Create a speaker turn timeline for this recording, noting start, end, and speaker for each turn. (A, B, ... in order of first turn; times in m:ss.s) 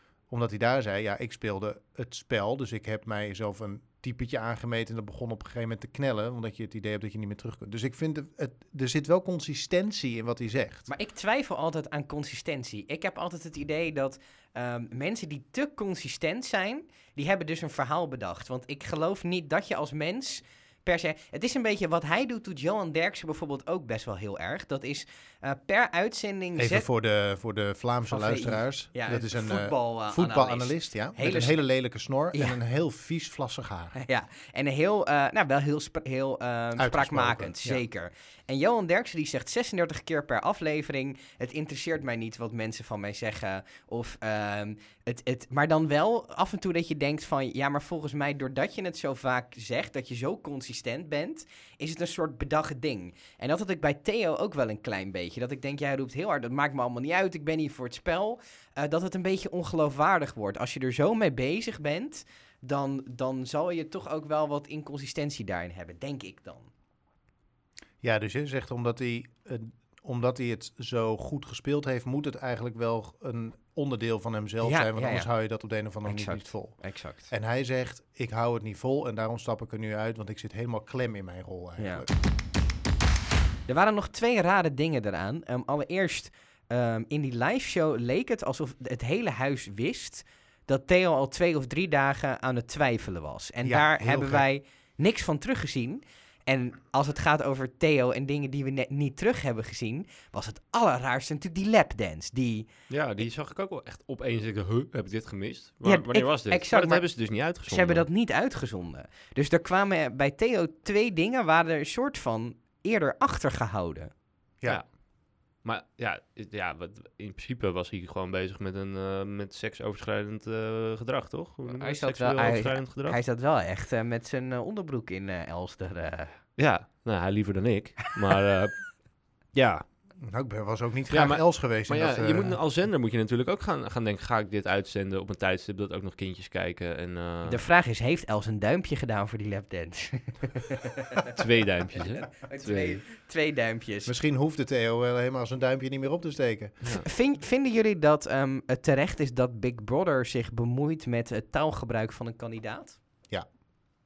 0:00.3-0:10.9 A
0:10.9-0:26.9 B
0:26.6-0:34.0 A
0:28.1-0:31.6 B
0:32.3-0:32.6 B
0:34.0-1:06.7 B
0:36.8-0:37.8 A
1:08.0-1:16.8 A
1:14.6-1:15.3 B
1:16.0-1:17.3 B
1:17.3-1:22.1 A
1:21.8-1:22.0 B
1:23.7-1:42.7 B
1:33.6-1:34.5 A
1:42.9-1:48.1 C
1:45.8-1:54.1 B
1:54.7-1:55.0 C
1:55.5-2:03.2 C
2:01.8-2:06.4 B
2:06.6-2:09.0 C
2:09.5-2:09.8 C
2:10.2-2:12.6 A
2:11.1-2:17.6 C
2:17.4-2:21.3 B
2:21.3-2:23.0 C
2:22.0-2:24.1 B
2:24.1-2:26.8 A
2:26.9-2:33.0 B